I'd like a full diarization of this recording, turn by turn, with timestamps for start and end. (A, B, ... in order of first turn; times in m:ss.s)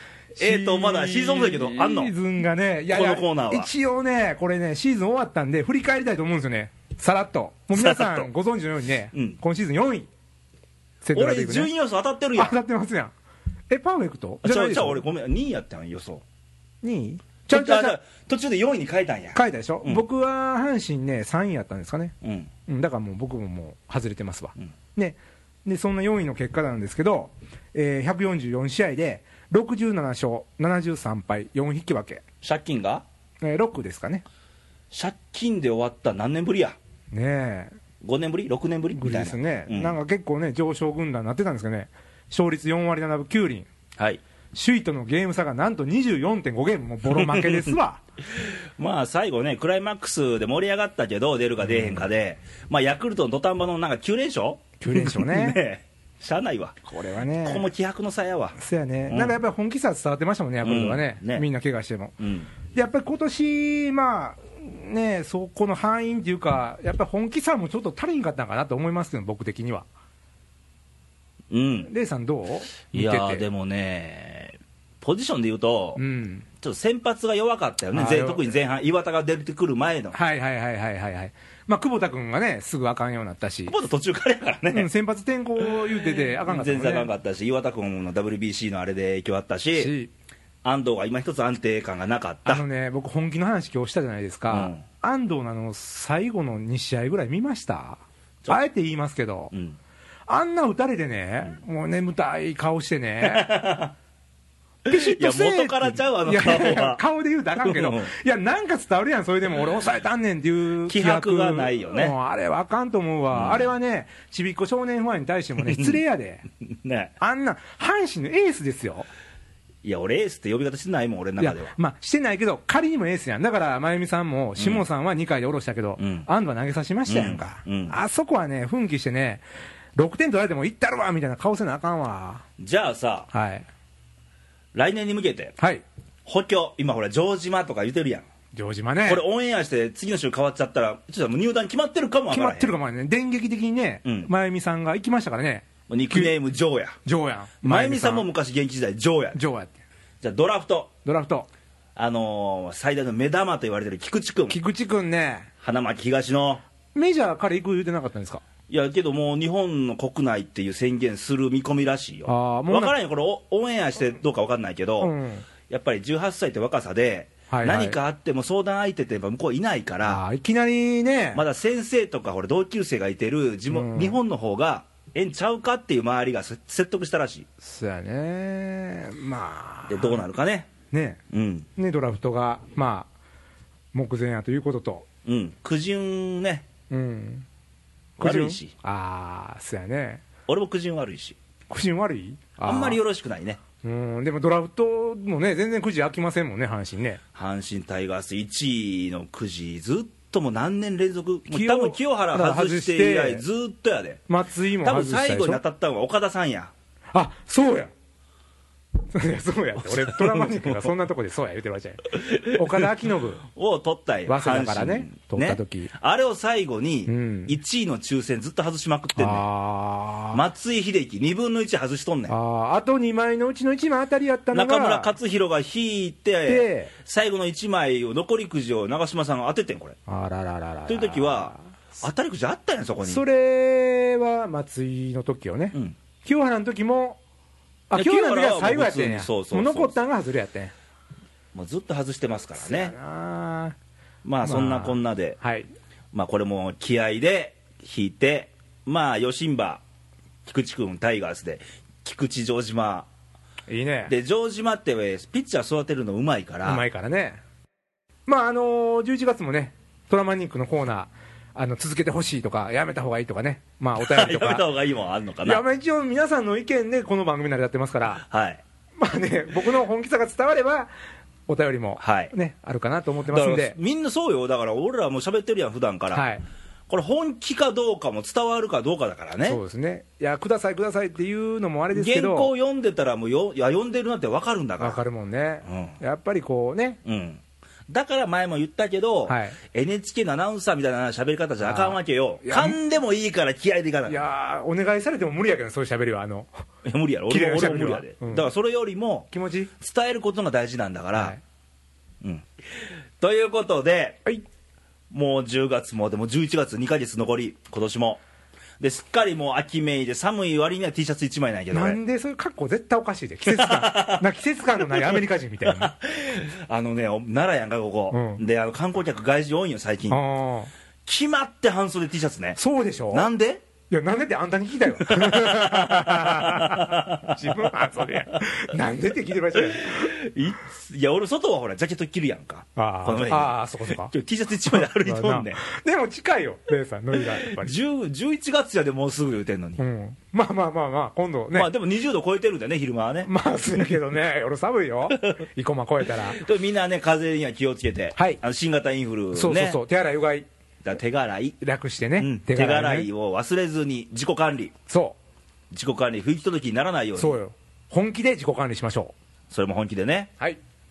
0:00.4-0:10.1 A
0:00.4-0:02.1 B
0:02.9-0:03.7 B
0:07.7-0:08.3 B
0:11.0-0:11.7 A
0:11.2-0:12.6 B
0:12.4-0:13.1 A
0:13.7-0:15.0 A
0:14.4-0:16.2 B
0:16.8-0:18.0 A
0:17.5-0:20.0 B
0:19.3-0:22.1 A
0:22.2-0:22.5 B
0:22.7-0:32.2 A
0:32.4-0:33.0 B
0:33.4-0:34.2 A
0:34.9-0:36.8 B
0:37.1-0:37.8 A
0:38.0-0:40.0 B
0:38.9-0:43.7 A
0:44.5-0:48.0 A
0:47.1-0:47.8 B
0:48.3-0:56.8 B
0:51.6-0:52.0 A
0:54.8-0:55.6 A
0:56.9-0:57.7 A
0:57.4-0:58.6 B
0:58.6-1:02.2 A
0:59.1-0:59.4 B
1:00.6-1:01.5 B
1:02.2-1:02.5 B
1:02.7-1:09.9 A
1:11.5-1:11.9 B
1:11.9-1:13.4 A
1:12.9-1:16.0 B
1:16.0-1:16.5 A
1:16.6-1:20.2 B
1:17.9-1:18.5 A
1:20.1-1:23.8 A
1:23.7-1:24.9 B
1:24.7-1:27.1 A
1:25.9-1:29.9 B
1:29.8-1:30.1 A
1:30.6-1:32.6 B
1:32.5-1:39.5 A
1:34.5-1:34.8 B
1:39.5-1:39.8 B
1:40.3-1:43.6 A
1:43.2-1:44.0 B
1:44.8-1:56.5 A
1:44.9-1:47.0 B
1:47.6-1:48.1 B
1:50.9-1:52.1 B
1:53.3-1:53.7 B
1:55.6-1:56.0 B
1:56.6-1:57.1 B
1:57.2-1:59.1 A
1:59.8-2:01.7 B
2:01.4-2:09.4 A
2:04.6-2:04.8 B
2:06.0-2:06.3 B
2:07.1-2:08.0 B
2:10.0-2:12.4 A
2:12.6-2:13.3 B
2:13.3-2:13.7 A
2:14.7-2:15.5 B
2:15.6-2:15.8 A
2:16.3-2:18.3 B
2:18.5-2:19.2 A
2:19.0-2:22.7 B
2:22.3-2:26.4 A
2:24.0-2:24.3 B
2:25.9-2:27.0 B
2:27.0-2:28.3 A
2:27.6-2:29.4 B
2:29.3-2:29.8 A
2:30.2-2:30.9 B
2:31.0-2:31.5 A
2:32.0-2:34.6 B
2:34.5-2:35.5 A
2:35.6-2:36.6 B
2:36.9-2:38.4 A
2:38.7-2:45.1 B
2:42.3-2:43.0 A
2:45.0-2:45.5 A
2:45.7-2:50.2 B
2:47.5-2:48.0 A
2:50.0-2:51.4 A
2:51.3-2:57.5 B
2:53.7-2:54.2 A
2:57.6-3:00.2 A
2:59.9-3:00.7 B
3:00.9-3:01.2 A
3:01.3-3:01.7 B
3:01.8-3:03.1 A
3:03.9-3:05.1 A
3:05.2-3:06.7 B
3:06.9-3:07.5 A
3:08.2-3:08.7 B
3:08.2-3:10.2 A
3:10.5-3:11.4 B
3:11.7-3:13.0 A
3:12.6-3:13.6 B
3:13.8-3:17.2 A
3:17.4-3:24.2 B
3:21.5-3:23.4 A
3:24.3-3:25.6 A
3:24.8-3:26.7 B
3:27.1-3:27.9 A
3:29.1-3:33.4 A
3:29.8-3:30.9 B
3:32.1-3:32.9 B
3:33.4-3:39.4 B
3:34.3-3:35.9 A
3:37.1-3:37.6 A
3:39.2-3:40.4 A
3:40.3-3:42.3 B
3:42.3-3:45.1 A
3:44.5-3:50.0 B
3:46.5-3:46.9 A
3:50.1-3:51.7 A
3:50.9-3:53.2 B
3:53.0-3:57.2 A
3:57.9-4:00.7 A
3:58.0-4:00.0 B
4:01.5-4:03.0 B
4:02.6-4:03.8 A
4:04.2-4:05.4 B
4:04.4-4:05.7 A
4:06.1-4:09.8 B
4:10.5-4:13.1 B
4:13.7-4:14.1 A
4:14.1-4:16.8 B
4:16.6-4:17.4 A
4:18.3-4:24.7 A
4:24.0-4:25.6 B
4:25.4-4:28.2 A
4:28.2-4:28.6 B
4:29.0-4:30.9 A
4:31.5-4:33.8 A
4:32.0-4:32.3 B
4:33.3-4:36.2 B
4:36.1-4:36.4 A
4:36.9-4:39.6 B
4:39.4-4:42.5 A
4:41.9-4:45.0 B
4:44.8-4:47.0 A
4:45.7-4:46.0 B
4:47.0-4:54.2 B
4:49.3-4:49.6 A
4:51.6-4:52.8 A
4:54.1-4:56.6 A
4:56.8-5:01.4 B
4:57.3-4:58.5 A
4:59.3-4:59.7 A
5:02.2-5:02.5 B
5:03.2-5:04.2 B
5:05.1-5:08.2 B
5:08.8-5:12.0 B
5:11.7-5:15.9 A
5:13.5-5:14.3 B
5:14.8-5:20.2 B
5:18.1-5:18.4 A
5:20.1-5:20.7 A
5:21.1-5:22.6 B
5:22.6-5:23.3 A
5:23.1-5:23.6 B
5:23.9-5:30.1 A
5:24.9-5:27.7 B
5:29.5-5:35.6 B
5:32.8-5:37.8 A
5:37.2-5:39.8 B
5:39.8-5:41.7 A
5:41.6-5:43.9 B
5:43.2-5:46.4 A
5:45.1-5:45.4 B
5:46.2-5:49.8 B
5:48.2-5:48.4 A
5:49.3-5:50.5 A
5:50.8-5:51.6 B
5:51.6-5:53.1 A
5:52.2-5:54.7 B
5:54.9-5:55.2 A
5:55.7-5:57.4 B
5:57.2-5:59.1 A
5:59.5-6:00.3 B